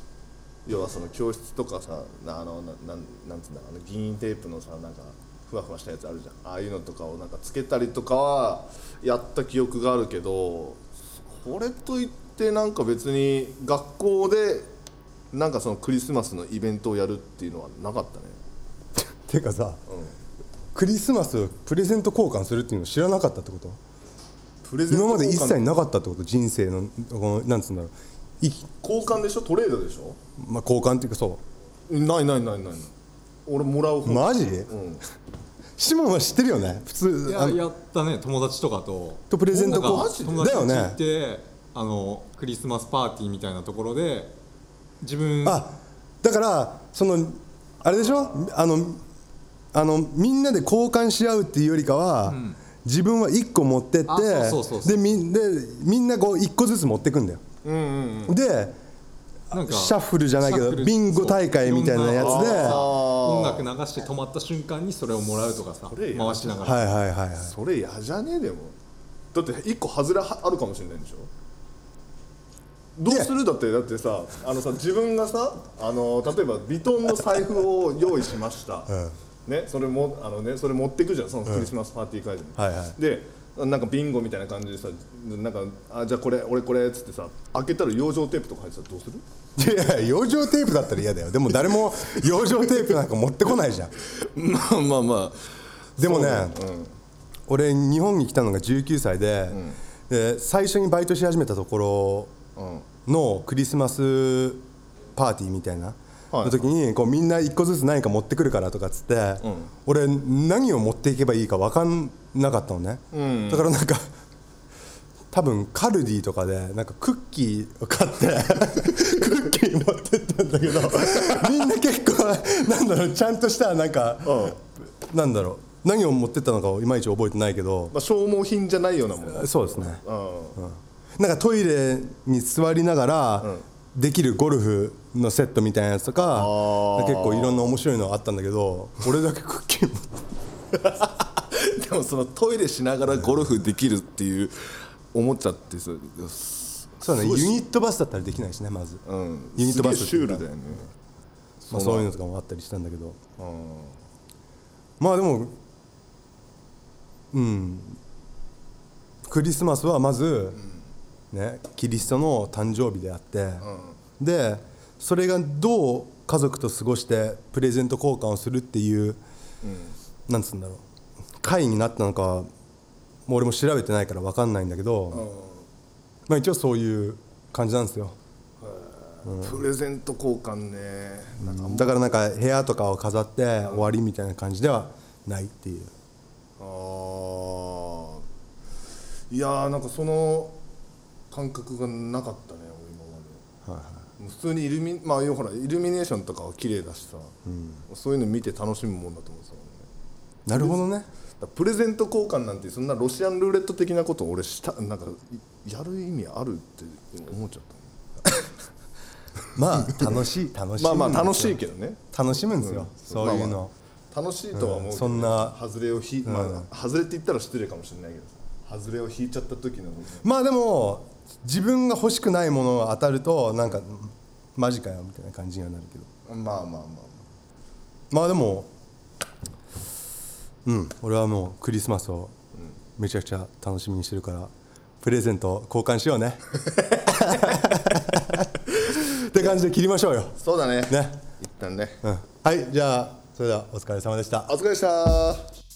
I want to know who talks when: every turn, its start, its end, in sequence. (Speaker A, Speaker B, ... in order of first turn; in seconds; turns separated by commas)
Speaker A: 0.7-14.7, Speaker A: 15.3-18.4, Speaker B: 19.0-19.8, Speaker A: 19.9-20.1, Speaker B: 20.7-23.8, Speaker A: 24.6-25.7, Speaker B: 24.9-28.7, Speaker A: 28.8-30.2, Speaker B: 30.4-31.4, Speaker A: 31.9-32.9, Speaker A: 33.5-35.0, Speaker B: 34.0-34.7, Speaker B: 35.8-37.6, Speaker C: 37.2-44.3, Speaker B: 39.3-41.0, Speaker A: 39.5-40.6, Speaker C: 45.0-45.6, Speaker B: 45.4-49.0, Speaker B: 49.7-57.4, Speaker C: 52.2-52.6, Speaker C: 54.1-55.2, Speaker A: 57.6-58.4, Speaker B: 58.3-58.8, Speaker B: 59.5-62.9, Speaker C: 59.5-66.8, Speaker A: 62.2-63.6, Speaker A: 65.8-66.7, Speaker B: 66.6-67.5, Speaker A: 67.4-68.8, Speaker A: 69.3-71.3, Speaker A: 73.0-78.9, Speaker B: 73.1-73.3, Speaker B: 78.9-79.1, Speaker A: 79.5-89.2, Speaker B: 82.6-83.0, Speaker B: 89.6-93.9, Speaker A: 94.0-97.0, Speaker B: 96.0-96.6, Speaker B: 97.5-102.3, Speaker A: 99.5-99.8, Speaker A: 102.6-102.9, Speaker B: 103.1-114.1, Speaker A: 106.3-106.7, Speaker A: 109.4-109.7, Speaker A: 113.1-113.7, Speaker B: 115.3-127.9, Speaker A: 124.2-124.6, Speaker A: 127.9-130.6, Speaker B: 129.3-130.0, Speaker B: 130.6-140.2, Speaker A: 136.3-137.8, Speaker A: 140.8-144.5, Speaker A: 145.1-147.6, Speaker B: 147.0-149.0, Speaker A: 149.1-150.9, Speaker B: 149.6-150.5, Speaker B: 151.6-153.2, Speaker A: 151.7-152.1, Speaker A: 153.4-154.0, Speaker B: 155.0-155.6, Speaker B: 157.3-158.0, Speaker B: 159.3-160.6, Speaker B: 161.3-163.7, Speaker A: 163.6-164.0, Speaker B: 164.2-169.2, Speaker A: 169.6-170.0, Speaker B: 170.3-170.8, Speaker B: 171.4-172.5, Speaker B: 173.3-175.2, Speaker A: 175.1-175.6, Speaker B: 176.3-178.2, Speaker A: 178.6-182.1, Speaker B: 179.2-179.6, Speaker B: 181.4-185.9, Speaker A: 186.6-188.2, Speaker A: 189.3-190.6, Speaker A: 191.3-193.4, Speaker B: 193.7-194.1, Speaker A: 194.2-197.4, Speaker B: 197.5-197.8, Speaker A: 197.9-199.9, Speaker B: 200.5-201.1, Speaker A: 200.5-200.8, Speaker A: 201.4-207.9, Speaker B: 209.5-211.6, Speaker A: 210.8-212.0, Speaker B: 212.1-213.7, Speaker A: 212.5-220.2, Speaker B: 214.5-215.6, Speaker B: 216.2-216.7, Speaker B: 220.2-226.1, Speaker A: 226.2-227.2, Speaker B: 228.1-228.7, Speaker B: 230.6-232.3, Speaker B: 233.0-234.5, Speaker B: 235.0-236.4, Speaker A: 236.8-237.5, Speaker B: 237.2-241.2, Speaker A: 240.4-242.0, Speaker B: 242.0-244.5, Speaker A: 244.5-245.4